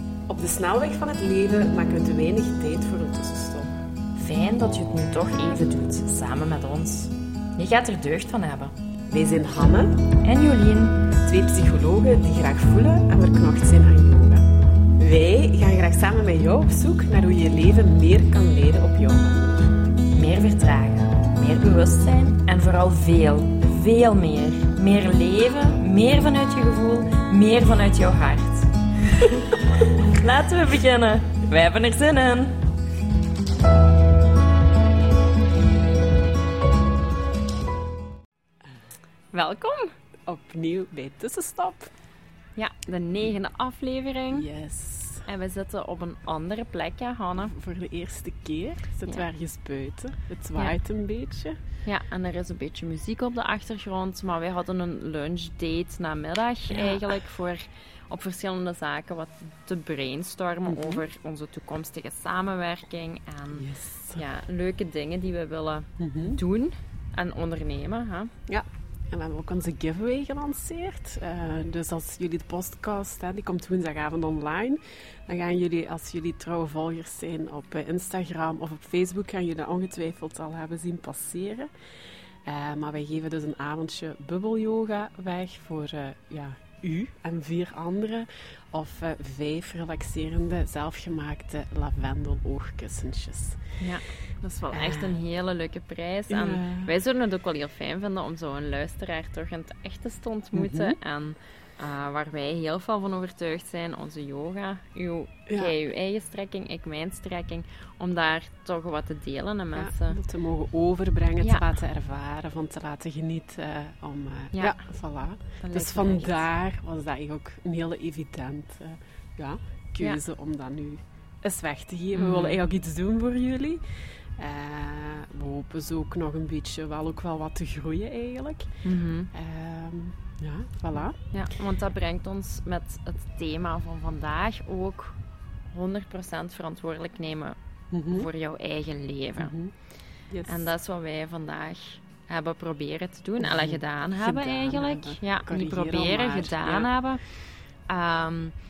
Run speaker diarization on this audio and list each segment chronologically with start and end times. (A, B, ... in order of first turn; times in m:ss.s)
0:00.3-0:03.7 A
0:04.2-0:08.7 B
0:09.1-0:10.0 A
0:10.2-0:11.1 B
0:11.2-0:14.5 A
0:15.0-0:19.4 A
0:20.1-0:32.6 B
0:39.3-0:39.9 B
0:40.3-0:41.9 A
0:42.6-0:44.5 B
0:44.3-0:45.3 A
0:45.3-0:47.5 B
0:47.4-0:51.6 A
0:51.8-1:08.3 B
0:56.7-0:57.2 A
1:00.7-1:01.0 A
1:03.5-1:04.2 A
1:06.0-1:06.4 A
1:08.5-1:21.7 A
1:22.4-1:33.6 A
1:33.8-1:50.2 B
1:34.7-1:35.2 A
1:36.3-1:36.9 A
1:40.5-1:41.0 A
1:45.5-1:45.8 A
1:49.8-2:03.8 A
1:51.4-1:51.7 B
1:54.5-1:54.8 B
1:55.6-1:56.5 B
2:02.1-2:02.6 B
2:04.4-2:08.8 A
2:08.8-2:09.3 B
2:09.3-2:11.2 A
2:11.3-2:15.2 B
2:15.7-2:17.6 B
2:17.9-2:18.3 A
2:18.1-2:19.5 B
2:19.4-2:19.7 A
2:20.3-2:20.7 A
2:20.5-2:27.2 B
2:23.4-2:26.9 A
2:27.9-2:28.6 B